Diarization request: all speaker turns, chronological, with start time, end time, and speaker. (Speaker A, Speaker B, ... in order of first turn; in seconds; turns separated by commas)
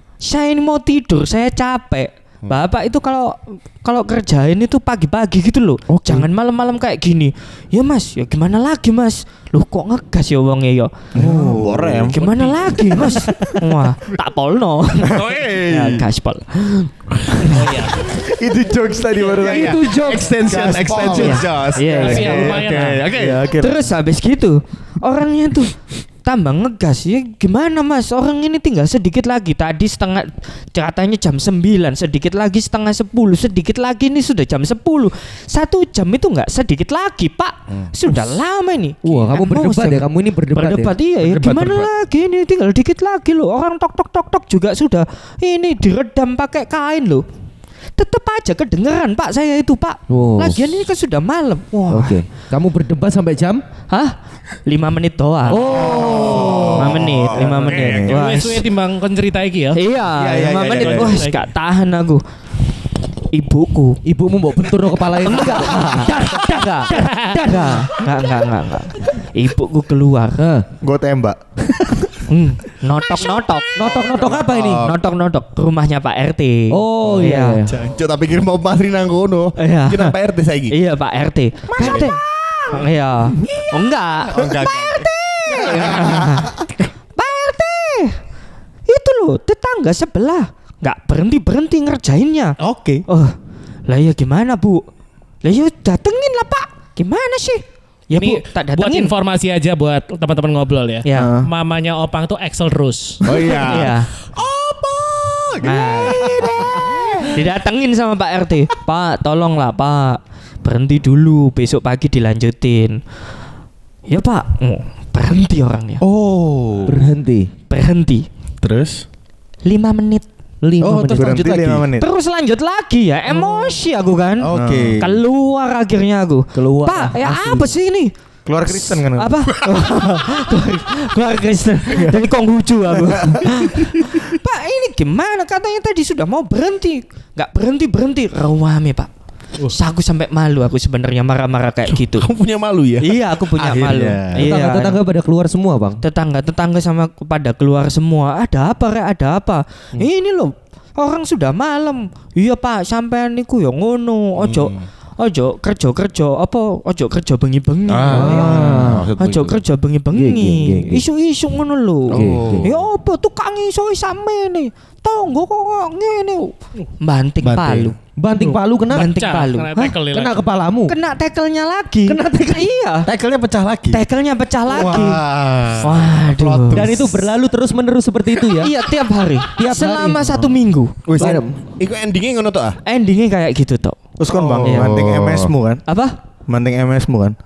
Speaker A: 0.2-10.9, Speaker B: 5.9-6.3, Speaker C: 11.1-12.2, Speaker B: 11.2-11.8, Speaker D: 11.5-12.8, Speaker A: 12.1-17.6, Speaker D: 15.1-16.1, Speaker E: 17.5-18.0, Speaker C: 18.0-23.9, Speaker D: 19.1-23.5, Speaker B: 19.4-21.0, Speaker A: 21.0-22.6, Speaker E: 21.9-23.2, Speaker A: 23.6-25.7, Speaker A: 26.2-47.2, Speaker B: 39.0-40.9, Speaker D: 41.2-41.9, Speaker A: 48.0-52.2, Speaker B: 50.1-50.7, Speaker B: 51.9-53.6, Speaker A: 53.9-58.6, Speaker B: 55.5-58.1, Speaker D: 55.7-57.1, Speaker C: 55.9-58.1, Speaker E: 58.0-59.8, Speaker A: 59.7-62.2, Speaker D: 60.1-61.2, Speaker E: 60.7-61.4, Speaker A: 63.3-64.0, Speaker B: 64.0-67.9, Speaker A: 65.2-70.4, Speaker B: 70.4-70.7, Speaker C: 70.8-72.2, Speaker A: 72.3-77.7, Speaker B: 73.7-74.9, Speaker C: 74.4-74.8, Speaker B: 76.7-77.7, Speaker D: 77.6-80.8, Speaker A: 79.5-80.2, Speaker A: 80.7-86.6, Speaker D: 81.8-82.1, Speaker C: 81.8-82.1, Speaker D: 84.3-86.2, Speaker C: 85.9-86.4, Speaker A: 87.1-88.2, Speaker A: 88.9-93.3, Speaker A: 93.9-94.8, Speaker A: 95.4-99.1, Speaker E: 98.1-103.2, Speaker A: 101.0-101.4, Speaker C: 101.1-101.5, Speaker D: 103.2-106.8, Speaker C: 103.2-103.9, Speaker A: 103.5-104.1, Speaker C: 105.6-107.3, Speaker A: 105.6-113.0, Speaker A: 114.1-116.0, Speaker D: 116.0-117.0, Speaker B: 116.8-117.5, Speaker A: 117.7-118.3, Speaker D: 118.6-119.0, Speaker A: 119.6-120.2, Speaker B: 120.6-121.8, Speaker D: 120.8-121.5, Speaker C: 121.0-122.1, Speaker A: 121.9-128.1, Speaker D: 124.4-125.1, Speaker C: 124.5-125.1, Speaker B: 126.5-127.7, Speaker C: 128.4-129.3, Speaker A: 128.7-139.1, Speaker C: 131.9-132.3, Speaker C: 132.9-134.2, Speaker A: 139.7-142.3, Speaker D: 142.0-144.5, Speaker A: 143.0-145.0, Speaker B: 144.4-146.0, Speaker A: 146.0-169.9, Speaker D: 154.4-154.8, Speaker D: 157.9-159.6, Speaker B: 158.0-159.1, Speaker B: 160.1-161.0, Speaker B: 162.1-162.7, Speaker D: 162.1-162.7, Speaker D: 167.4-167.9, Speaker B: 168.2-169.1, Speaker E: 168.9-170.4, Speaker B: 170.1-171.0, Speaker A: 170.9-173.1, Speaker B: 172.1-172.7, Speaker D: 173.1-174.0, Speaker A: 173.9-177.0, Speaker D: 174.7-177.3, Speaker B: 176.7-178.7, Speaker A: 178.6-180.9, Speaker B: 179.6-180.4, Speaker D: 181.1-182.8, Speaker B: 181.2-181.6, Speaker A: 182.8-183.9, Speaker C: 184.2-185.8, Speaker D: 184.3-185.5, Speaker A: 184.6-185.0, Speaker A: 185.9-186.2, Speaker C: 186.5-187.3